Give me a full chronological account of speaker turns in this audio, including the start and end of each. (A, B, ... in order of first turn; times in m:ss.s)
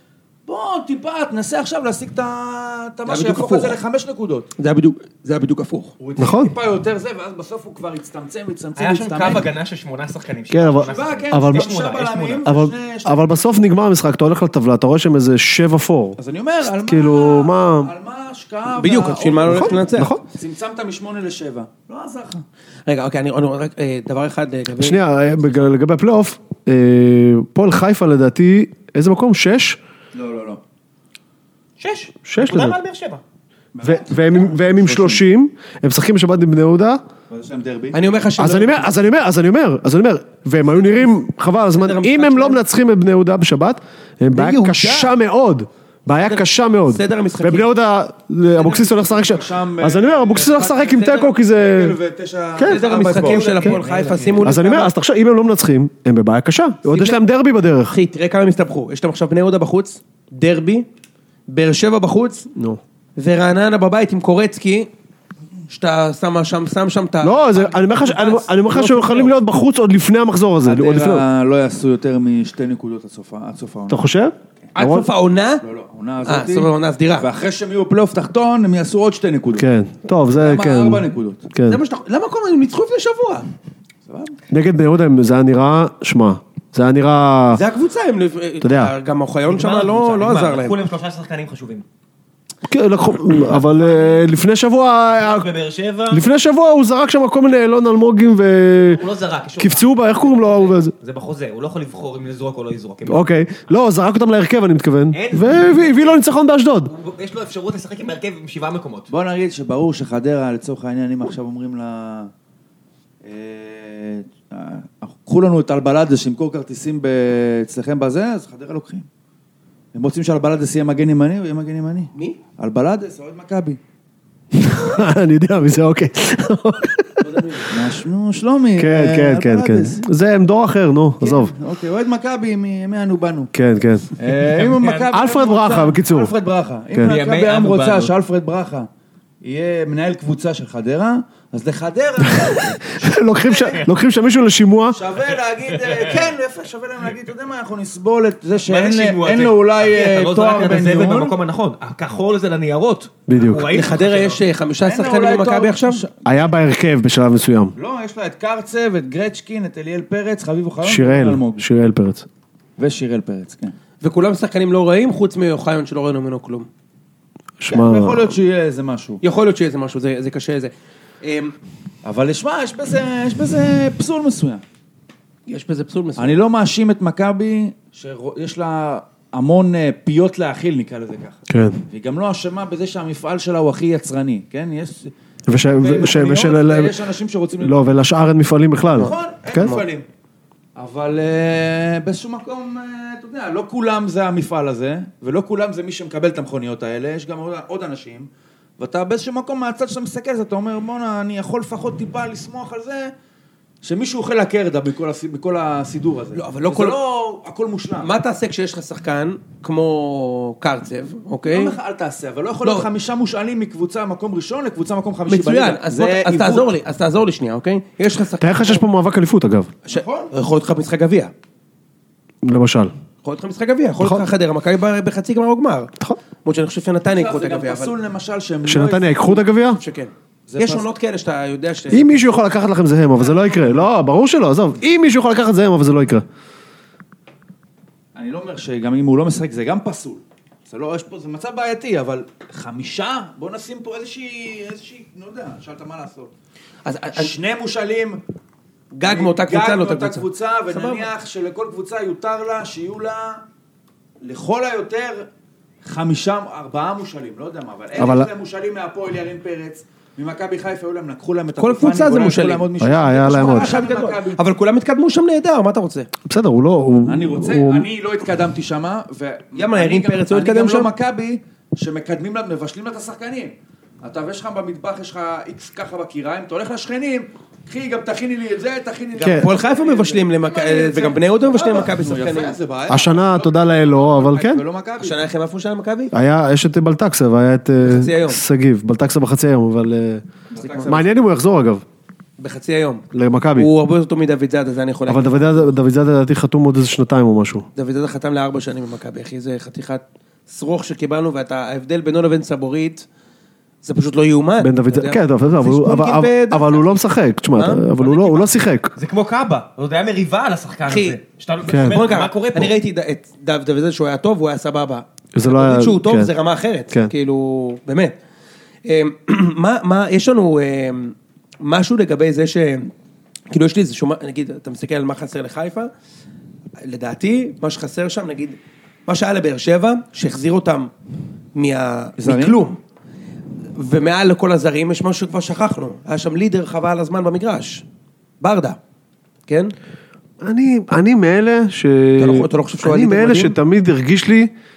0:00.5-0:04.5 A
0:03.1-0:03.8 B
0:04.6-0:05.9 B
0:06.0-0:09.5 A
0:06.2-0:06.6 C
0:08.8-0:12.5 D
0:10.5-0:11.7 C
0:10.8-0:13.3 A
0:12.5-0:17.9 C
0:16.2-0:22.4 A
0:18.8-0:20.1 B
0:19.5-0:20.2 C
0:22.9-0:25.0 B
0:24.8-0:29.8 C
0:30.1-0:30.6 A
0:31.8-0:33.2 D
0:32.3-0:32.8 C
0:33.7-0:35.2 A
0:33.8-0:37.0 C
0:37.3-0:38.1 A
0:37.9-0:38.9 B
0:38.4-0:52.0 C
0:41.8-0:42.6 B
0:44.3-0:45.1 B
0:46.1-0:47.7 B
0:48.5-0:54.4 A
0:52.6-0:52.8 C
0:52.6-0:54.9 B
0:53.1-0:54.4 D
0:54.4-0:58.0 C
0:56.9-0:57.2 B
0:57.9-1:00.9 B
1:01.5-1:02.5 B
1:02.6-1:02.8 C
1:03.2-1:04.9 B
1:05.7-1:07.6 B
1:07.2-1:11.2 C
1:07.8-1:09.3 A
1:10.6-1:14.1 A
1:13.9-1:15.1 C
1:14.8-1:15.6 B
1:15.6-1:19.7 A
1:16.2-1:17.3 B
1:19.6-1:21.8 C
1:20.3-1:21.5 A
1:21.7-1:23.5 B
1:24.1-1:24.4 A
1:24.5-1:27.6 C
1:27.5-1:30.8 B
1:28.6-1:28.9 C
1:29.5-1:31.8 D
1:32.7-1:35.5 C
1:33.4-1:34.3 D
1:35.2-1:36.2 D
1:36.1-1:39.0 C
1:38.9-1:43.2 D
1:39.6-1:40.9 C
1:43.1-1:46.9 C
1:45.1-1:46.2 D
1:46.9-1:49.1 D
1:49.1-1:52.3 A
1:53.2-1:59.1 A
1:59.9-2:03.8 A
2:02.1-2:02.4 B
2:04.6-2:07.7 C
2:07.6-2:10.0 A
2:08.8-2:11.5 C
2:11.2-2:13.5 A
2:13.5-2:14.1 C
2:14.2-2:18.9 A
2:14.4-2:15.2 D
2:15.1-2:16.3 C
2:17.0-2:18.1 D
2:19.4-2:23.8 A
2:22.3-2:25.0 C
2:24.9-2:31.4 A
2:25.7-2:26.2 D
2:28.6-2:34.4 D
2:33.3-2:33.7 C
2:33.7-2:36.0 B
2:34.8-2:36.2 A
2:36.2-2:37.7 C
2:37.8-2:41.6 A
2:40.8-2:42.3 C
2:42.8-2:43.8 A
2:44.0-2:46.7 B
2:47.6-2:48.4 C
2:47.7-2:49.2 A
2:49.2-2:51.5 B
2:52.0-2:54.6 A
2:55.5-2:56.4 B
2:56.2-3:05.1 A
3:01.5-3:01.8 C
3:05.5-3:07.0 C
3:05.7-3:07.9 A
3:07.6-3:09.8 C
3:09.0-3:10.1 A
3:09.0-3:09.8 B
3:10.8-3:23.1 A
3:23.8-3:28.1 A
3:26.3-3:27.0 B
3:28.0-3:31.8 B
3:31.4-3:36.7 A
3:35.3-3:38.8 B
3:38.4-3:39.7 C
3:39.9-3:41.3 B
3:39.9-3:40.3 A
3:42.4-3:42.9 C
3:43.2-3:45.9 B
3:46.4-3:48.0 B
3:47.1-3:49.4 A
3:48.6-3:49.8 C
3:49.8-3:52.3 B
3:50.5-3:50.9 A
3:51.9-3:56.2 C
3:53.2-3:53.9 A
3:58.2-4:06.3 A
4:06.8-4:07.4 B
4:07.1-4:08.2 A
4:08.9-4:11.1 B
4:09.0-4:13.4 A
4:14.2-4:15.3 A
4:15.8-4:24.4 A
4:18.0-4:18.3 C
4:21.6-4:22.7 B
4:22.8-4:23.7 C
4:23.3-4:26.1 B
4:26.2-4:27.9 C
4:27.0-4:45.2 A
4:29.6-4:30.9 B
4:39.2-4:39.5 C
4:39.3-4:42.6 B
4:42.9-4:44.6 C
4:45.0-4:46.1 B
4:46.1-4:50.2 C
4:47.8-4:48.4 B
4:50.5-4:51.2 A
4:50.6-4:50.9 B
4:50.8-4:51.8 C
4:52.4-4:55.7 B
4:53.1-4:53.7 C
4:55.1-4:57.7 C
4:57.8-5:03.1 B
5:03.8-5:07.0 B
5:04.6-5:08.9 C
5:07.6-5:08.5 B
5:09.0-5:12.8 D
5:10.9-5:11.2 B
5:11.7-5:12.0 C
5:11.8-5:18.2 B
5:15.4-5:16.3 C
5:18.8-5:22.9 B
5:23.5-5:25.9 B
5:26.8-5:30.9 B
5:31.6-5:32.8 B
5:32.2-5:32.6 A
5:33.8-5:37.8 B
5:38.4-5:38.8 B
5:39.5-5:39.7 B
5:40.4-5:44.5 C
5:42.2-5:43.6 B